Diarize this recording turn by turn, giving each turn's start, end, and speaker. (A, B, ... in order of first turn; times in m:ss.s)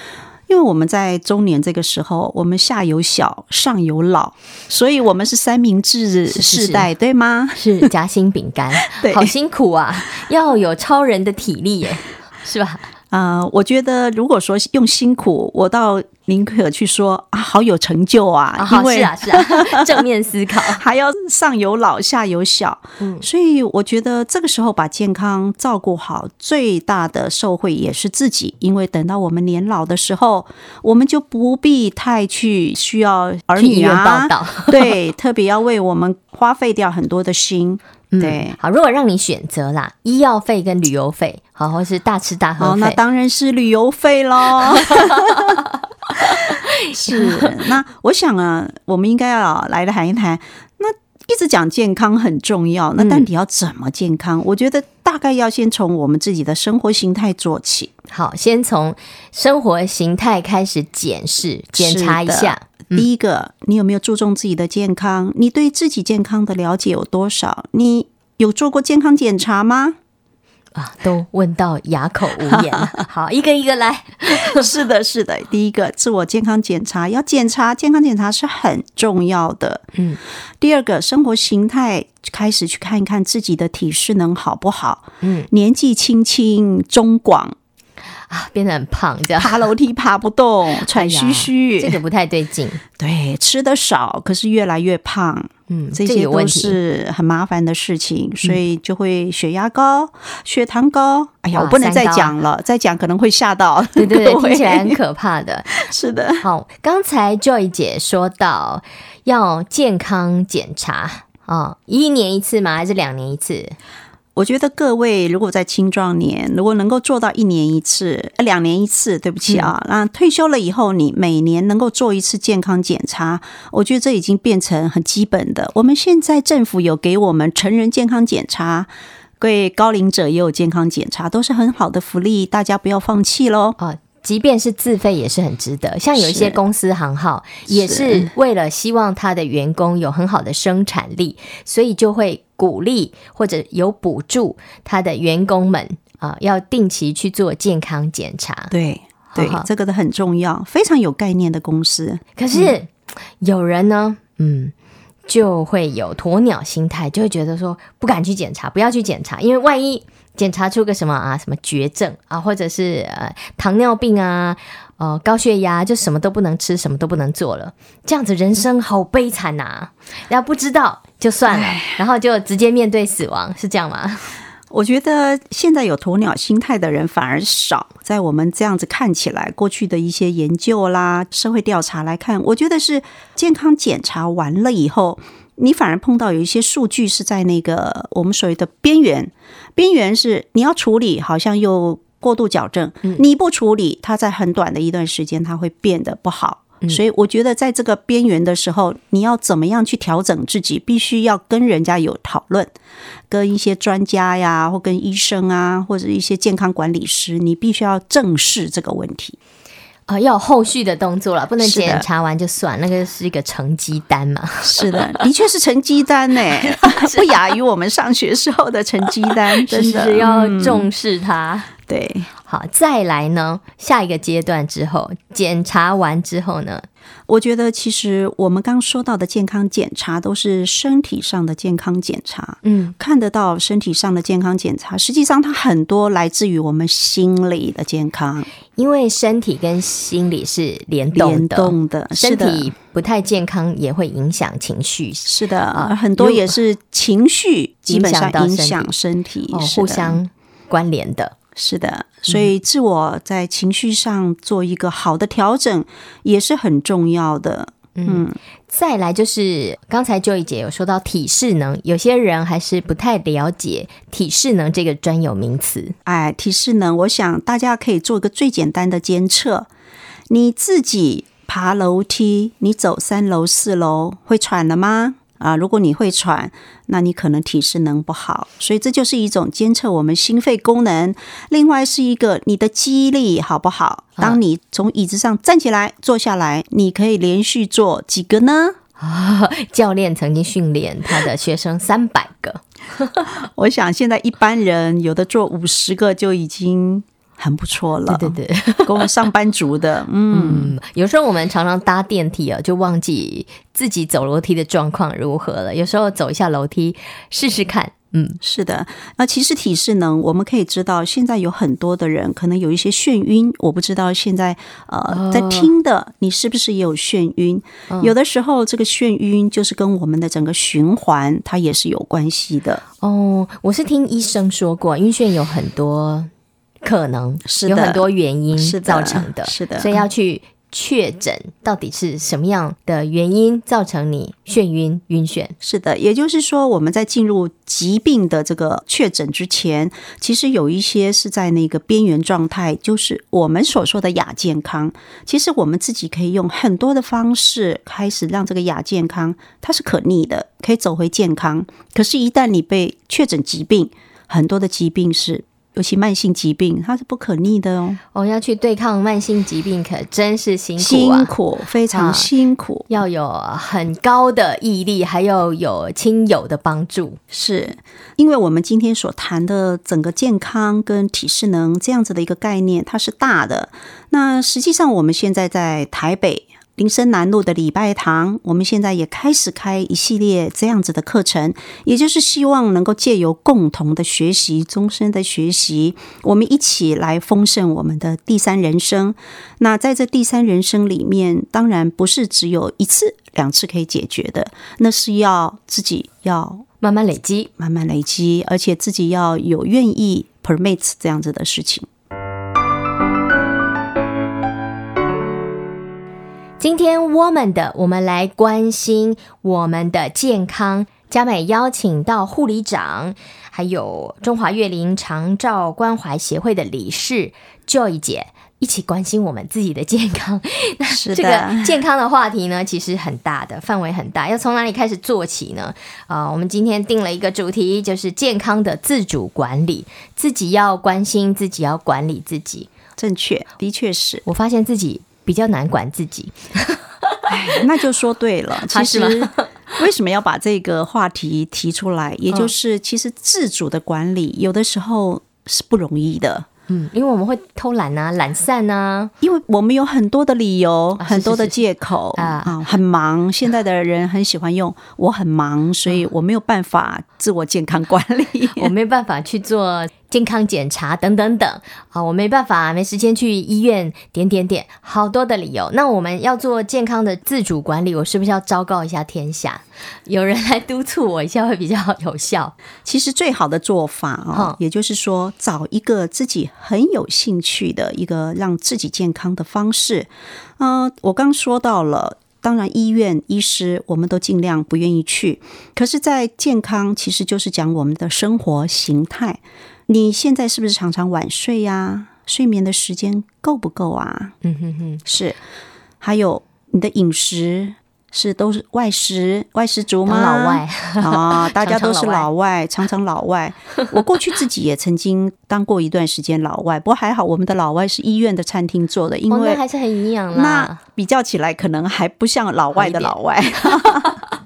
0:00.5-0:07.9 A
0:06.3-0:06.9 B
0:07.6-0:12.8 B
0:08.8-0:09.3 A
0:13.1-0:20.0 A
0:18.6-0:20.8 B
0:20.7-0:38.6 A
0:23.0-0:23.2 B
0:33.6-0:35.0 B
0:38.1-0:43.0 B
0:42.6-0:45.6 A
0:44.7-0:47.6 B
0:46.8-0:57.9 A
0:53.0-0:53.3 B
0:58.1-1:03.1 B
1:01.7-1:10.0 A
1:10.8-1:14.7 B
1:12.4-1:13.0 A
1:14.3-1:19.8 A
1:20.0-1:20.2 B
1:20.6-1:27.6 A
1:25.2-1:25.5 B
1:28.3-1:29.7 B
1:29.4-1:32.0 A
1:30.8-1:32.8 B
1:33.0-1:45.0 A
1:35.7-1:36.8 B
1:41.5-1:42.4 B
1:44.0-1:45.8 B
1:45.7-1:46.5 A
1:46.4-1:53.8 B
1:54.4-2:13.8 A
1:59.5-1:59.7 B
2:13.8-2:28.7 B
2:16.2-2:16.6 A
2:17.7-2:18.3 A
2:28.7-2:32.8 A
2:29.3-2:29.7 B
2:32.4-2:34.7 B
2:35.3-2:54.4 B
2:51.5-2:52.0 A
2:54.7-3:22.7 A
3:23.3-3:29.4 A
3:30.1-3:35.3 B
3:31.6-3:32.1 A
3:34.6-3:40.9 A
3:36.6-3:37.4 B
3:39.3-3:41.7 B
3:41.9-3:42.3 A
3:42.4-3:46.9 B
3:47.3-3:58.5 A
3:52.6-3:53.0 B
3:58.8-4:06.6 B
4:01.1-4:02.7 A
4:05.2-4:10.2 A
4:07.9-4:08.9 B
4:09.5-4:11.3 B
4:11.6-4:18.4 A
4:18.0-4:26.0 B
4:26.1-4:29.7 A
4:30.3-4:48.8 A
4:49.0-4:53.3 B
4:53.4-5:00.8 A
4:58.1-4:59.2 B
5:00.3-5:08.4 B
5:08.4-5:22.8 A
5:15.1-5:15.7 B
5:17.9-5:18.2 B
5:23.0-5:26.3 B
5:26.8-5:35.6 B
5:27.4-5:30.0 A
5:35.6-5:58.0 A
5:58.1-6:01.3 B
6:00.8-6:02.9 A
6:01.9-6:02.3 B
6:02.9-6:07.2 B
6:07.3-6:36.6 A
6:36.8-6:37.5 B
6:37.6-6:41.9 A
6:46.6-7:12.7 B
7:00.9-7:01.8 A
7:13.0-7:14.2 A
7:14.2-7:17.2 B
7:17.3-7:26.5 A
7:18.6-7:19.5 B
7:26.7-7:29.1 B
7:29.2-7:38.7 A
7:31.0-7:31.6 B
7:32.2-7:32.6 B
7:38.6-7:52.6 B
7:52.8-8:14.4 A
7:54.3-7:54.6 B
8:14.4-8:15.0 B
8:15.0-8:15.4 A
8:16.0-8:29.6 A
8:20.1-8:22.3 B
8:29.3-8:30.8 B
8:30.3-8:34.2 A
8:32.7-8:33.8 B